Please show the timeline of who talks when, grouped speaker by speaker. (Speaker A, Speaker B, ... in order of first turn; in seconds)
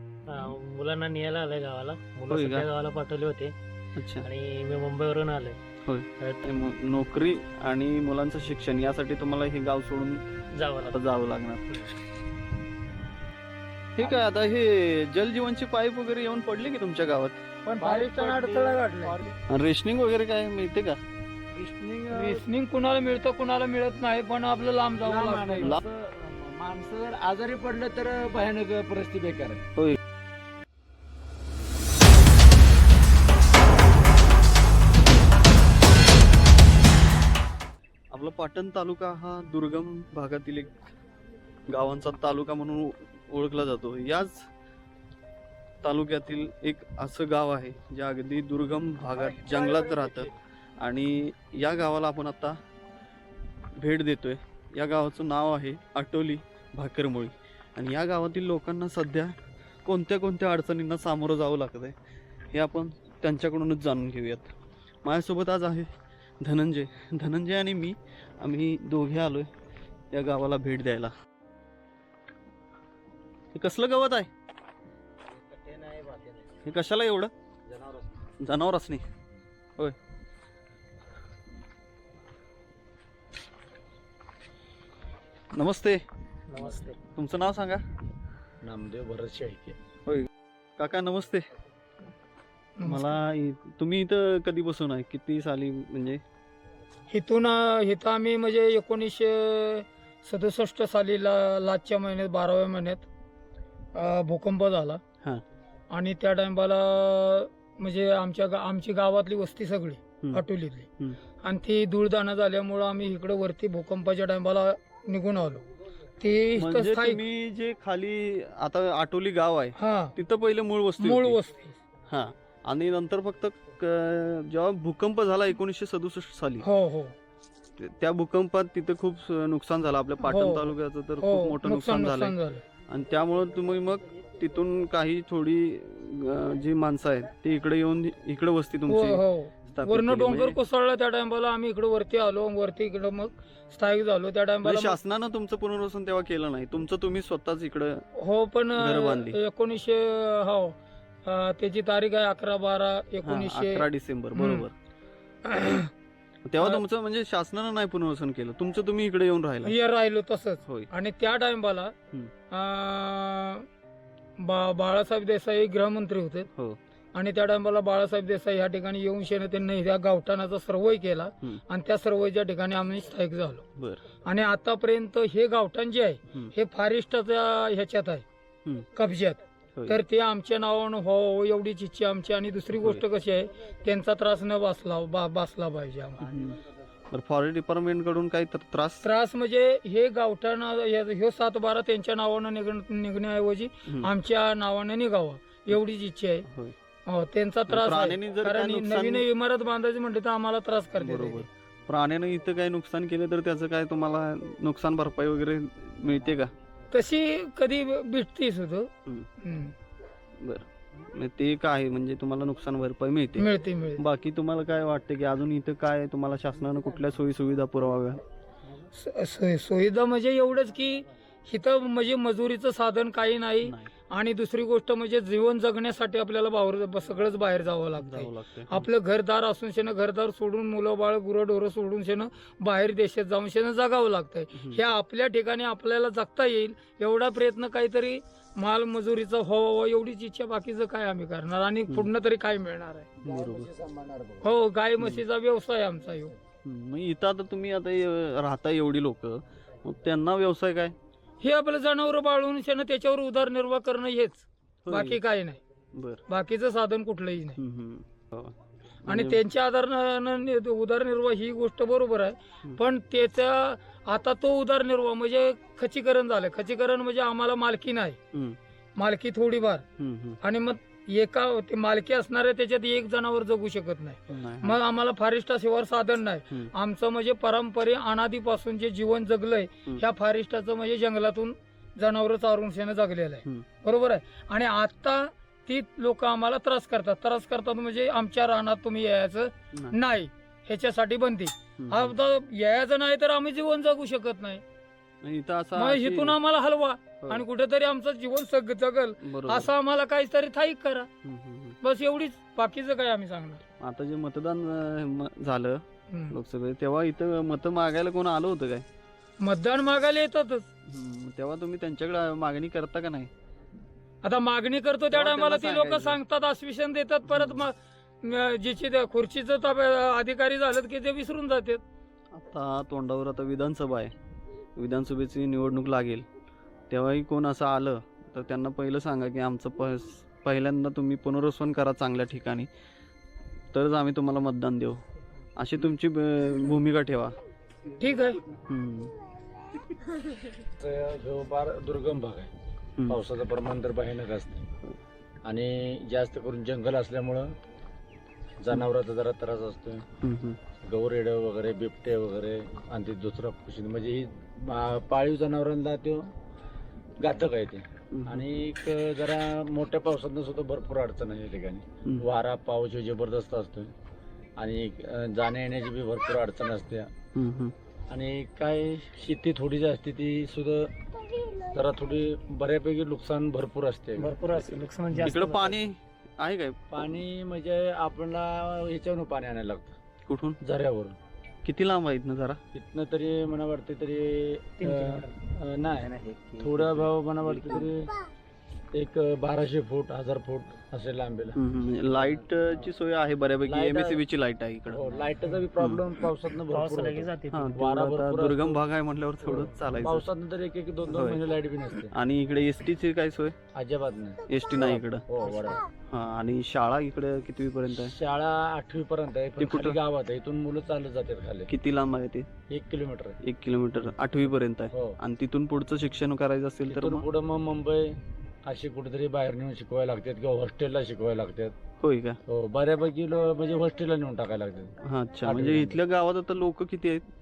Speaker A: 0.3-3.5, 4.2-5.6, 10.5-11.1, 86.5-87.0, 374.2-375.7, 384.8-385.3, 386.3-386.8, 396.7-397.7
Speaker B: 2.3-2.7, 4.0-4.3, 5.9-10.3, 10.8-12.0, 14.0-17.4, 19.5-21.0, 38.1-40.7, 41.7-44.5, 45.8-52.6, 53.8-62.0, 62.5-64.5, 65.0-65.9, 66.4-69.5, 70.1-71.1, 73.5-74.3, 76.6-77.3, 78.4-79.0, 85.5-86.0, 87.2-87.8, 90.1-91.5, 92.8-96.2, 116.6-121.4, 122.1-126.7, 127.8-132.4, 132.9-140.6, 144.6-148.0, 148.8-149.4, 153.2-154.7, 156.5-159.8, 173.8-174.0, 179.8-180.0, 182.8-183.0, 186.2-186.6, 187.1-189.1, 196.5-196.8, 197.7-199.3, 201.0-206.5, 210.4-218.2, 223.7-223.9, 228.0-228.9, 243.2-243.7, 246.6-250.9, 254.9-255.2, 255.9-256.2, 257.6-258.6, 259.1-259.4, 270.0-270.4, 274.3-274.8, 291.8-292.1, 295.2-296.4, 299.2-299.7, 301.2-301.8, 303.8-308.9, 310.9-313.3, 315.1-316.2, 317.3-317.7, 322.3-324.1, 324.8-326.3, 326.9-332.7, 333.7-335.0, 335.6-337.4, 338.7-339.1, 350.2-350.7, 358.1-358.5, 367.3-367.7, 375.1-377.1, 380.3-380.6, 381.6-382.6, 386.9-387.9, 391.6-396.2, 397.5-400.3, 401.1-401.4, 402.0-403.6, 404.5-405.3, 406.0-408.1, 409.6-410.0, 411.7-412.5, 413.4-417.3, 422.0-422.4, 425.0-427.2
Speaker C: 14.0-14.3, 17.8-19.4, 21.5-22.4, 25.0-29.6, 75.3-76.5, 77.7-78.3, 88.6-89.8, 243.2-244.5, 340.8-342.5, 343.1-344.6, 345.4-347.5, 348.6-350.1, 350.7-356.3, 357.2-363.9, 364.6-367.1, 368.1-370.9, 371.7-374.4, 376.9-379.9, 380.6-381.2, 382.8-388.1, 388.9-392.5, 393.6-394.2, 394.9-398.8, 399.4-402.1, 403.8-405.9, 407.9-411.7, 412.7-413.4, 414.9-415.2, 416.9-421.7, 422.5-426.0
Speaker D: 17.6-19.2, 22.1-25.8, 92.8-93.1, 97.1-103.1, 104.0-105.0, 105.9-110.9, 111.4-115.7, 116.2-117.2, 119.8-120.1, 121.0-121.8, 126.6-127.2, 130.2-132.6, 138.9-145.0, 148.2-153.8, 154.4-154.7, 155.4-155.9, 159.6-161.9, 162.5-163.7, 164.4-166.5, 167.1-173.6, 174.2-178.2, 178.9-186.3, 189.0-196.5, 197.1-201.5, 206.9-208.9, 209.4-209.8, 213.4-214.0, 218.9-243.1, 244.4-246.3, 251.4-255.6, 256.3-257.6, 259.1-268.2, 269.0-269.9, 270.4-294.6, 295.8-301.1, 301.8-303.6, 306.1-306.4, 309.4-310.7, 314.2-321.8, 338.0-338.4